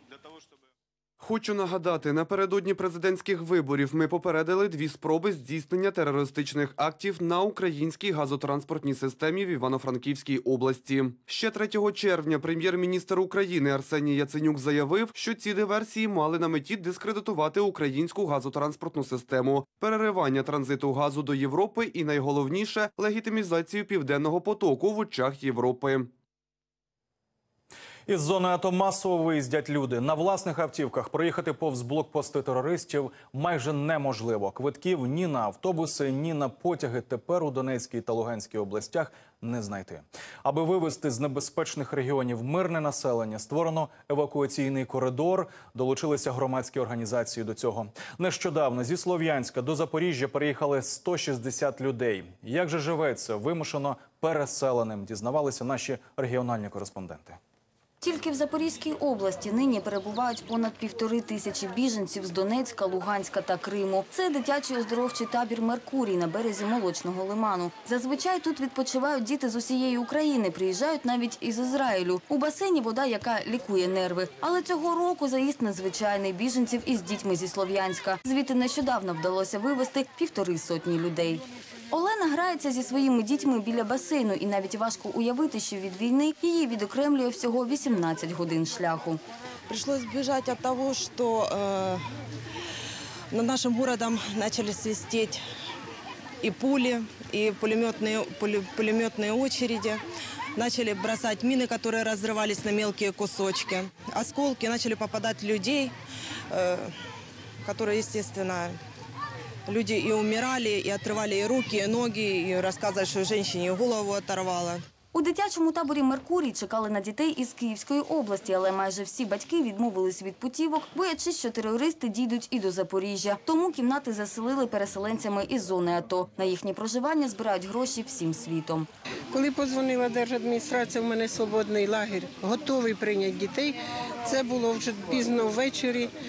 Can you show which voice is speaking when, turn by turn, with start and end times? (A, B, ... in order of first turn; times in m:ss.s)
0:01.2-0:26.1 A
0:28.1-0:57.4 B
0:58.0-1:29.2 C
1:29.7-1:32.0 D
1:33.3-1:35.4 D
1:36.4-1:40.0 D
1:40.6-1:46.0 D
1:46.5-1:46.9 D
1:47.6-1:48.8 D
1:49.7-1:54.8 D
1:55.1-2:08.9 C
2:09.3-2:16.1 E